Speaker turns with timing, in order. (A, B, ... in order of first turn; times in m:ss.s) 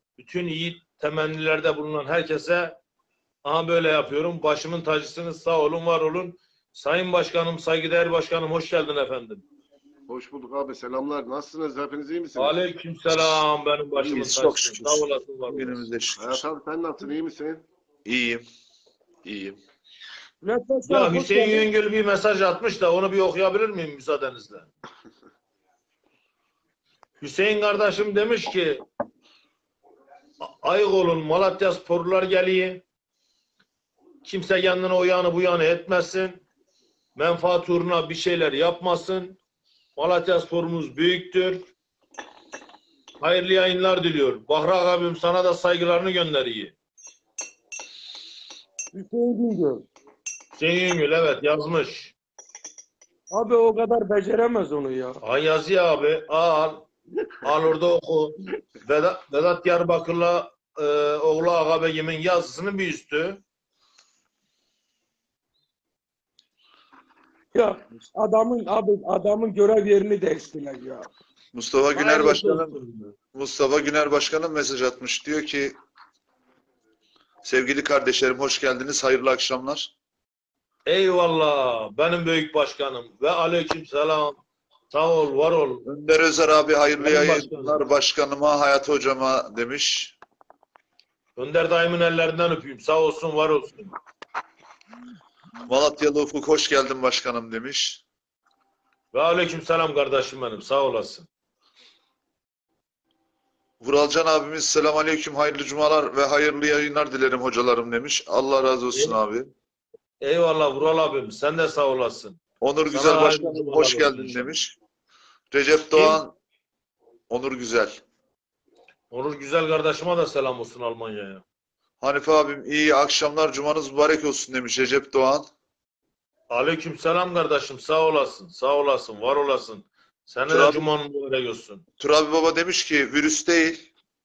0:00.2-0:02.8 A
0:03.4-0:09.4 A
0:10.1-0:12.6 B
0:12.3-0:15.8 A
0:14.1-0:16.4 C
0:16.2-0:17.6 B
0:18.0-0:18.4 C
0:19.2-0:19.6 C
0:20.4-0:21.7 D
0:20.9-0:24.7 A
0:27.2-0:28.8 A
0:30.4-0:32.8 A
0:34.2-0:36.4 A
0:37.2-0:39.4 A
0:40.0-0:41.7 A
0:43.2-0:46.7 A
0:48.9-0:49.9 D
0:50.5-0:52.1 A
0:53.3-0:55.2 D
0:55.2-0:56.9 A
0:57.4-1:03.4 A
1:07.5-1:11.1 D
1:11.5-1:12.8 C
1:11.9-1:13.2 A
1:13.3-1:15.7 C
1:17.4-1:19.9 C
1:20.8-1:24.4 A
1:24.9-1:25.9 A
1:25.8-1:30.2 C
1:27.0-1:27.8 A
1:31.4-1:33.9 A
1:35.6-1:38.0 C
1:39.1-1:41.3 A
1:43.8-1:49.5 C
1:48.9-1:49.2 A
1:50.2-1:52.4 A
1:52.6-1:54.8 C
1:52.9-1:54.5 A
1:55.5-1:56.3 C
1:55.9-1:56.2 A
1:57.3-1:58.0 C
1:59.1-2:01.4 A
2:02.0-2:05.5 C
2:06.5-2:11.8 A
2:10.5-2:10.8 C
2:12.0-2:13.9 C